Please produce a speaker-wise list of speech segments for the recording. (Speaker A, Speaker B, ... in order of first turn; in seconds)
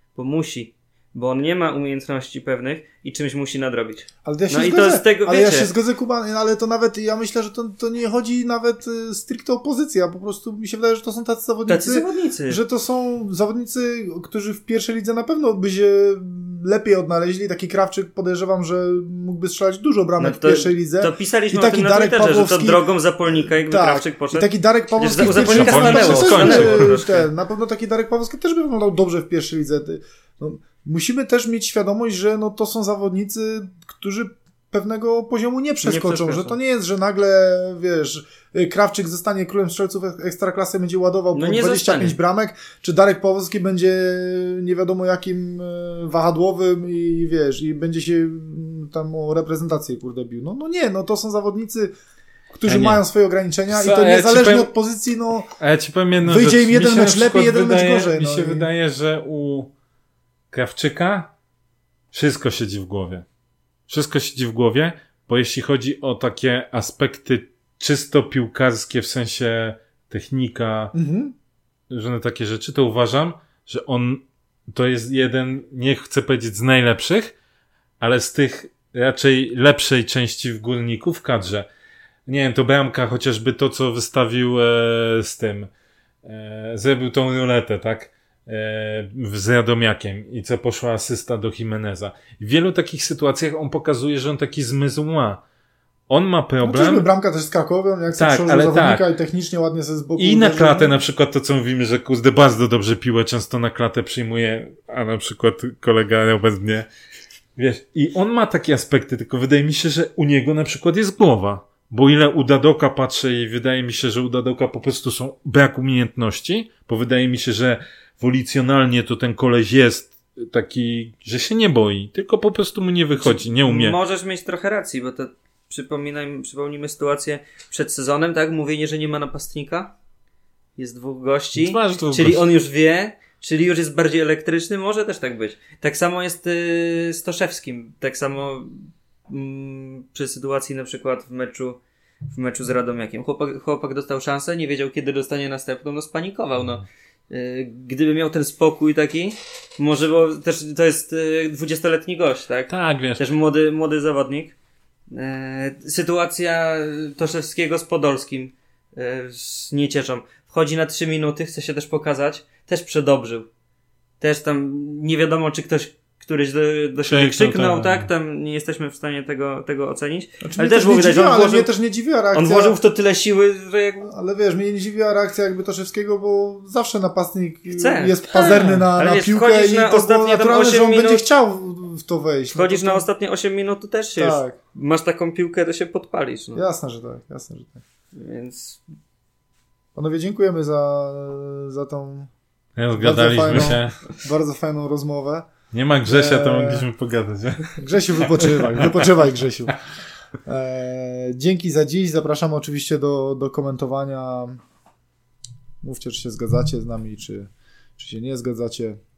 Speaker A: 0.1-5.7, 11.7-12.6, 20.2-27.3, 35.8-36.6, 41.3-42.2, 123.2-129.9, 130.8-141.8, 142.3-154.6, 155.1-163.5, 164.2-171.7, 172.3-174.1, 177.7-181.2, 182.5-186.6, 188.1-188.8
Speaker B: 4.2-51.9, 52.5-55.5, 56.2-58.7, 70.9-71.3, 96.6-101.0, 170.4-172.8, 174.1-183.0, 184.2-184.6, 186.6-187.8, 189.9-192.3, 193.0-195.5, 196.1-196.9, 197.8-199.8, 200.5-204.6, 205.8-209.0
Speaker C: 25.2-27.0, 52.7-53.0, 53.7-54.7, 55.6-59.7, 60.5-61.3, 62.1-63.2, 63.9-71.0, 71.9-77.3, 78.0-81.7, 82.3-85.7, 86.2-95.4, 96.1-97.1, 98.2-99.1, 100.2-106.9, 107.6-124.0, 131.6-132.5, 152.7-153.2, 167.1-168.1, 178.4-178.9, 192.8-194.0, 195.7-199.0